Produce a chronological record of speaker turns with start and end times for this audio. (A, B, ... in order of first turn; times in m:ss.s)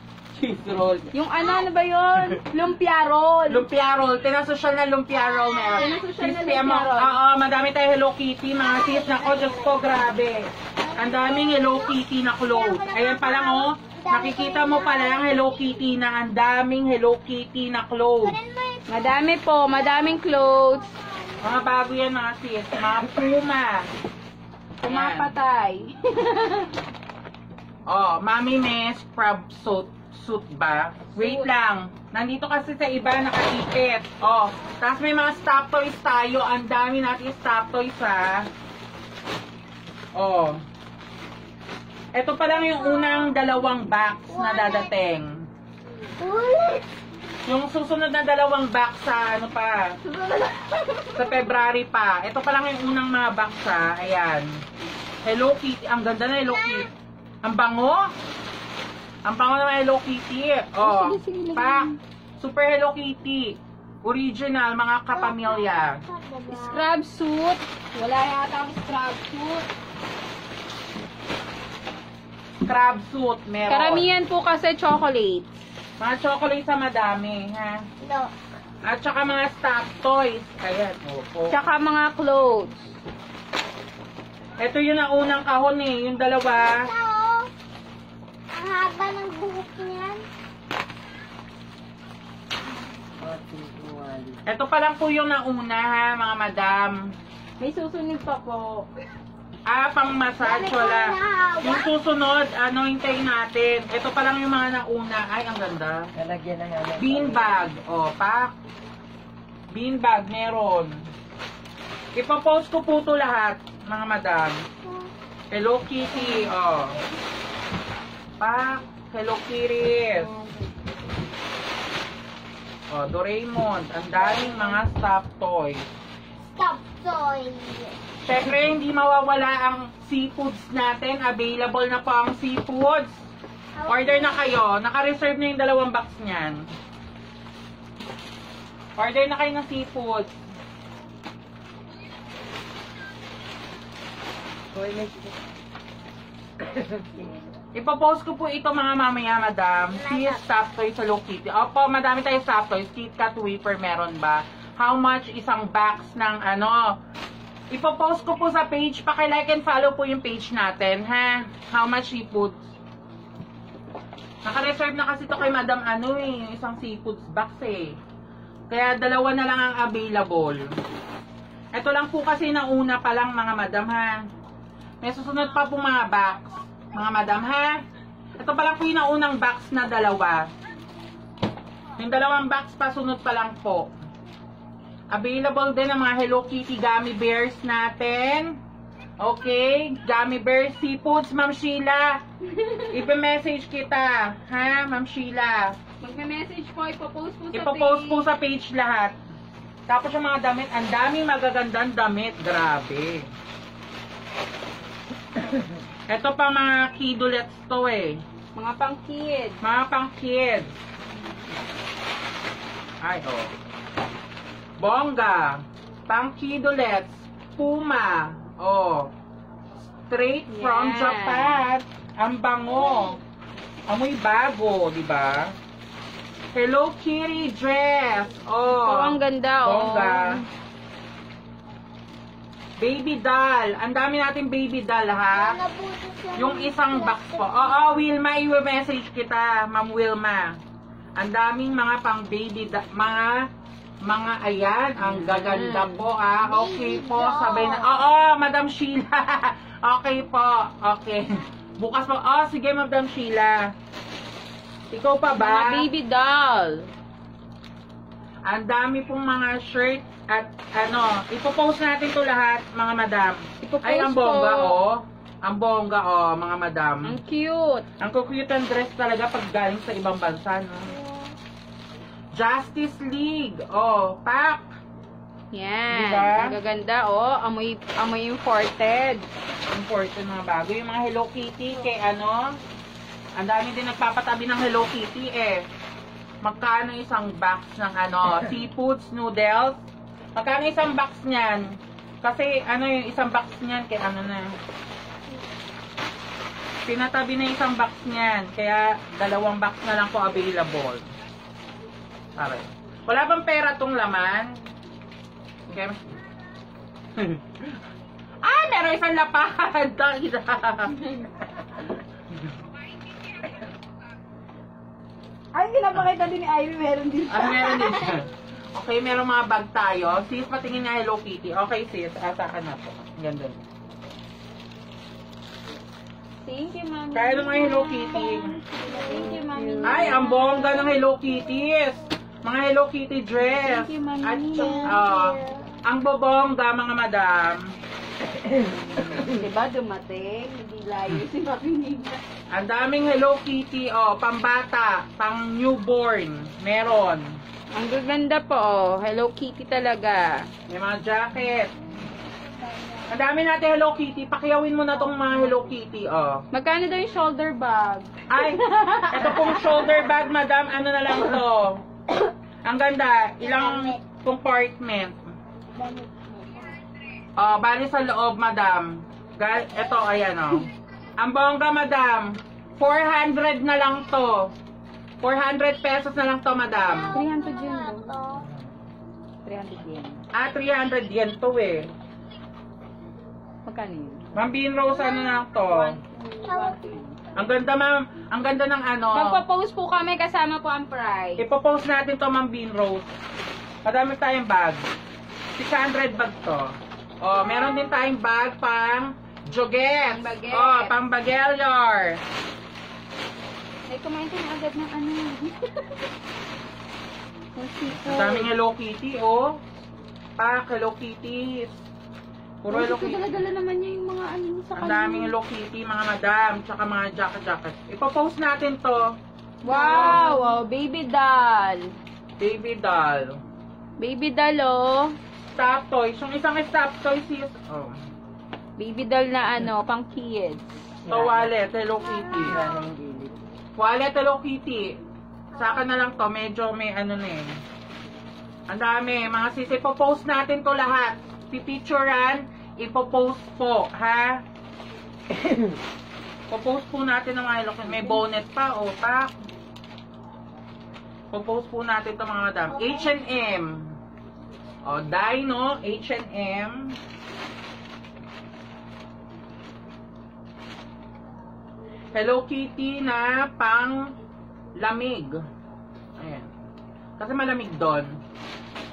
0:00.3-0:01.1 A
0:01.1-0:03.6 B
0:01.4-0:01.7 C
0:03.5-0:18.4 A
0:05.1-0:06.0 C
0:05.8-0:07.2 B
0:08.6-0:09.9 C
0:10.8-0:15.9 C
0:18.2-0:21.9 C
0:18.9-0:20.9 B
0:21.4-0:23.9 A
0:24.8-0:26.7 B
0:24.9-0:25.3 A
0:27.9-0:38.5 A
0:31.1-0:31.5 B
0:40.2-0:40.6 A
0:42.1-0:45.3 A
0:42.4-0:43.4 C
0:44.3-0:44.9 C
0:46.2-0:46.8 C
0:47.4-0:49.9 A
0:50.0-0:51.5 B
0:51.1-0:54.5 A
0:55.2-0:56.9 A
0:56.4-0:56.9 C
0:57.4-0:58.1 A
0:59.2-1:06.0 A
1:00.8-1:02.0 B
1:05.1-1:06.8 C
1:06.5-1:09.7 B
1:12.6-1:14.1 A
1:13.7-1:15.5 B
1:16.0-1:17.8 A
1:18.0-1:18.3 C
1:18.8-1:21.6 A
1:21.5-1:22.8 B
1:24.6-1:26.9 A
1:26.5-1:27.5 C
1:28.5-1:30.2 C
1:33.2-1:34.4 D
1:34.4-1:37.0 A
1:37.6-1:38.9 B
1:39.7-1:46.1 A
1:40.4-1:41.9 C
1:46.2-1:47.6 D
1:47.0-1:48.5 A
1:49.7-1:51.0 A
1:52.2-1:54.6 A
1:54.8-1:55.1 C
1:55.5-1:57.0 A
1:56.2-1:56.5 C
1:58.4-2:00.3 A
2:00.2-2:00.6 C
2:02.9-2:05.8 A
2:04.2-2:04.8 C
2:06.4-2:08.0 C
2:08.2-2:13.1 A
2:13.8-2:14.6 C
2:13.9-2:16.6 A
2:19.0-2:20.3 A
2:24.7-2:25.4 D
2:26.6-2:27.3 D
2:27.7-2:36.9 A
2:30.0-2:30.4 C
2:37.7-2:42.6 A
2:44.4-2:48.0 A
2:48.7-2:50.6 A
2:51.7-2:54.2 A
2:55.0-2:57.8 A
2:58.4-3:00.5 A
3:02.0-3:03.9 A
3:05.1-3:08.6 A
3:09.2-3:12.2 A
3:12.5-3:12.9 B
3:12.9-3:15.8 A
3:16.0-3:18.3 B
3:17.5-3:19.2 A
3:19.9-3:23.3 A
3:26.1-3:28.2 A
3:28.6-3:29.6 B
3:29.6-3:30.7 A
3:33.0-3:33.5 A
3:34.8-3:39.1 A
3:40.1-3:43.2 A
3:40.5-3:41.6 B
3:43.9-3:45.5 A
3:46.5-3:50.3 A
3:48.7-3:50.5 B
3:52.8-3:55.6 A
3:55.3-3:57.9 C
3:56.4-4:00.5 A
4:01.2-4:03.4 A
4:04.0-4:13.7 A
4:05.0-4:06.0 B
4:06.4-4:08.0 C
4:14.9-4:15.9 A
4:15.3-4:16.9 B
4:18.4-4:27.2 A
4:23.6-4:24.8 B
4:27.0-4:27.8 B
4:28.0-4:30.9 A
4:30.9-4:31.3 C
4:32.3-4:34.7 A
4:35.5-4:39.3 B
4:35.9-4:36.6 A
4:39.7-4:42.6 A
4:43.4-4:45.6 A
4:46.4-4:49.8 A
4:50.3-4:54.5 A
4:56.8-5:01.1 A
5:02.4-5:04.6 A
5:05.7-5:06.0 A
5:07.2-5:07.7 A
5:08.4-5:11.0 A
5:11.0-5:11.3 B
5:15.5-5:18.2 B
5:17.3-5:23.6 A
5:26.4-5:30.9 B
5:27.1-5:28.6 A
5:27.9-5:29.4 C
5:29.1-5:30.1 D
5:29.8-5:37.7 A
5:30.8-5:31.7 C
5:33.4-5:35.0 B
5:34.5-5:35.7 C
5:38.4-5:39.4 D
5:39.1-5:42.2 B
5:42.5-5:47.3 A
5:47.7-5:50.5 B
5:50.7-5:51.7 A
5:52.5-5:53.1 C
5:53.1-5:56.4 A
5:56.5-5:59.9 B
5:58.3-6:01.8 A
6:02.6-6:05.2 A
6:03.4-6:04.0 C
6:05.8-6:06.8 C
6:07.4-6:14.5 A
6:15.2-6:17.2 A
6:16.7-6:18.5 C
6:17.1-6:18.1 B
6:19.4-6:20.2 B
6:20.3-6:21.9 A
6:23.7-6:24.3 B
6:24.3-6:26.0 A
6:24.9-6:25.4 C
6:25.7-6:27.2 B
6:26.4-6:27.0 C
6:27.3-6:29.4 A
6:29.1-6:31.4 B
6:31.4-6:33.1 A
6:33.8-6:34.8 A
6:35.6-6:42.2 A
6:40.1-6:40.9 B
6:43.9-6:46.0 B
6:47.6-6:48.5 B
6:48.0-6:49.6 A
6:50.4-6:51.8 A
6:52.6-6:53.3 A
6:52.7-6:55.3 B
6:54.8-6:59.1 A
6:59.6-7:01.9 B
6:59.7-7:00.3 A
6:59.7-7:00.6 C
7:02.4-7:03.4 A
7:04.0-7:05.2 B
7:05.6-7:08.0 A
7:08.8-7:10.9 B
7:11.0-7:11.5 D
7:11.1-7:12.6 A
7:12.0-7:12.9 C
7:12.4-7:13.4 D
7:13.8-7:15.0 A
7:15.5-7:16.0 C
7:15.6-7:17.5 A
7:18.7-7:24.4 A
7:25.4-7:25.6 D
7:26.5-7:29.3 A
7:31.3-7:33.8 A
7:32.7-7:33.2 C
7:34.8-7:37.0 A
7:42.1-7:44.1 A
7:44.8-7:45.4 A
7:46.2-7:46.5 A
7:47.2-7:48.2 A